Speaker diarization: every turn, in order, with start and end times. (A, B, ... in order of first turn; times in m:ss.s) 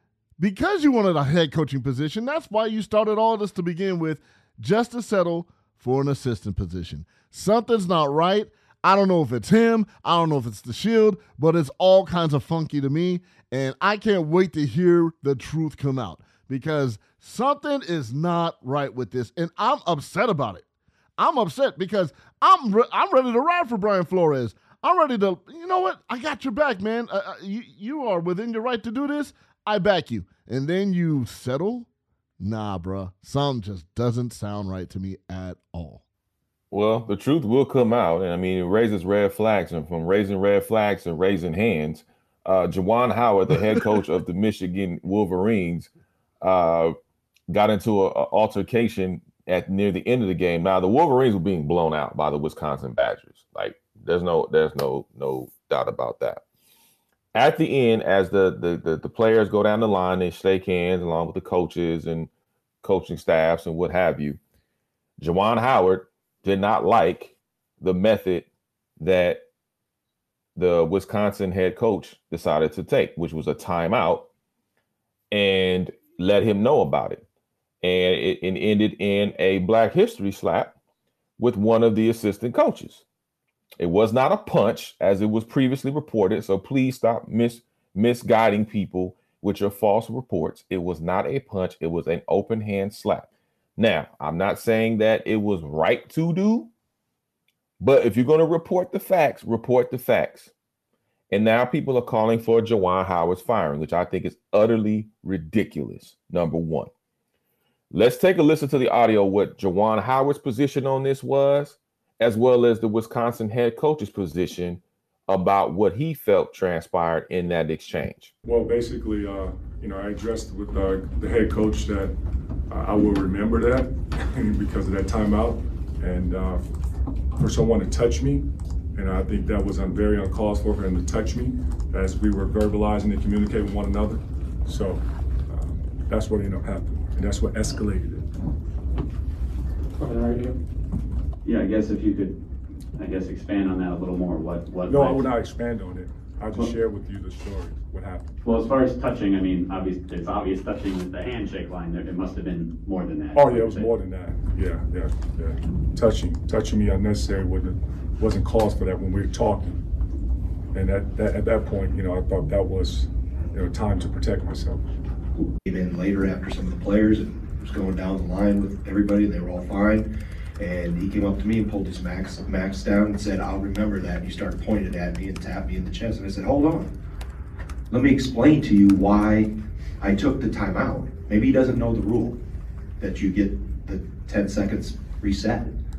0:00.4-0:20.6 A
0:21.2-0:31.9 A
0:32.4-0:36.0 A
0:36.7-0:45.9 B
0:46.4-0:46.9 B
0:47.5-0:56.4 B
0:57.3-1:02.3 B
1:02.8-1:04.4 B
1:05.2-1:08.5 B
1:09.0-1:09.4 B
1:10.6-1:14.3 B
1:15.3-1:17.2 B
1:17.8-1:20.7 B
1:21.4-1:23.0 B
1:23.8-1:36.7 B
1:37.8-1:40.5 B
1:41.3-1:46.9 B
1:47.9-1:58.3 B
1:58.4-2:02.1 C
2:02.7-2:06.6 C
2:07.4-2:18.2 C
2:20.0-2:20.5 D
2:21.4-2:22.4 D
2:23.0-2:25.3 D
2:24.9-2:28.3 C
2:28.4-2:33.9 D
2:33.3-2:39.8 C
2:40.7-2:44.8 C
2:45.6-2:56.9 E
2:57.9-3:02.4 E
3:03.0-3:05.7 E